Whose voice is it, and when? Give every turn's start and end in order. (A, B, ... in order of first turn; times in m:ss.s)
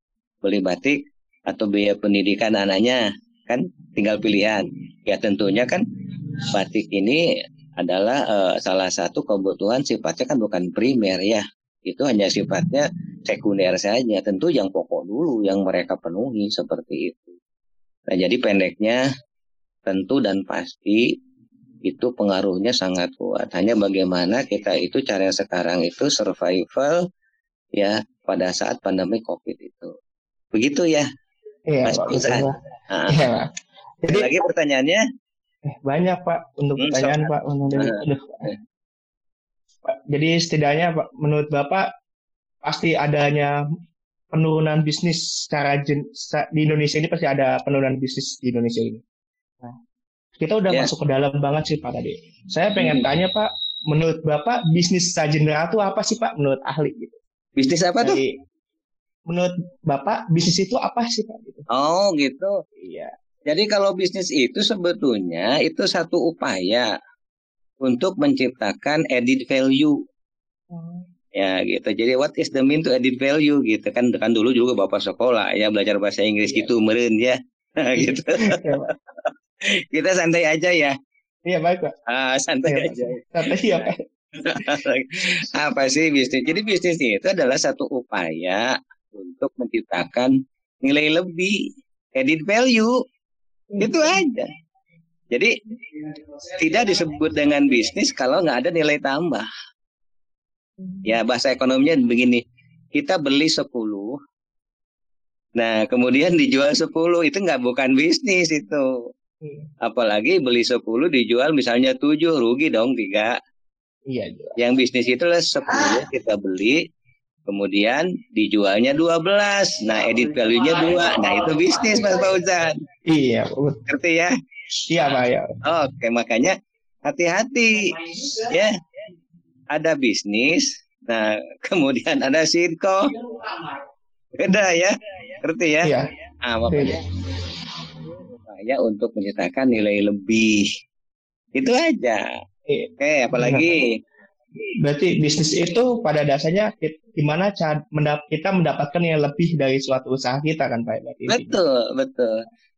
0:00.4-0:05.8 A
0:06.5-0:17.4 A
0:18.1-0:19.0 A
0:19.9-0:21.2 A
0:21.8-0:27.1 A
0:27.8-0:29.9 A
0:30.5-0:31.1 A
0:31.7-0:32.6 B
0:31.8-0:33.3 A
0:33.1-0:33.5 B
0:34.0-0:34.4 B
0:34.1-0:35.0 A
0:35.7-0:38.5 B
0:36.8-0:37.3 A
0:37.8-0:38.5 A
0:39.9-0:41.9 B
0:42.6-0:43.5 B
0:44.3-0:49.0 B
0:50.4-0:57.2 B
0:52.8-0:53.0 A
0:57.6-0:58.2 A
0:58.0-0:58.4 B
0:59.3-1:01.7 B
1:01.7-1:02.5 A
1:02.8-1:03.1 B
1:03.5-1:06.9 A
1:07.8-1:10.0 A
1:10.7-1:11.0 B
1:11.4-1:21.0 A
1:18.0-1:18.9 B
1:21.5-1:21.9 B
1:22.1-1:31.6 A
1:22.7-1:24.0 B
1:32.2-1:33.0 A
1:33.7-1:34.0 B
1:33.8-1:34.5 A
1:36.5-1:39.5 A
1:41.0-1:44.2 A
1:45.6-1:49.1 A
1:49.4-1:49.7 B
1:49.8-1:53.4 A
1:54.1-1:54.6 B
1:54.6-1:56.8 A
1:57.5-2:02.8 A
2:03.1-2:03.8 B
2:03.9-2:04.3 A
2:04.9-2:05.5 B
2:05.6-2:08.8 A
2:09.7-2:13.2 A
2:14.4-2:17.0 A
2:15.8-2:16.1 B
2:16.7-2:17.0 B
2:18.4-2:20.7 A
2:21.6-2:22.3 A
2:22.7-2:23.7 B
2:23.0-2:24.0 A
2:24.8-2:31.5 B
2:31.3-2:32.4 A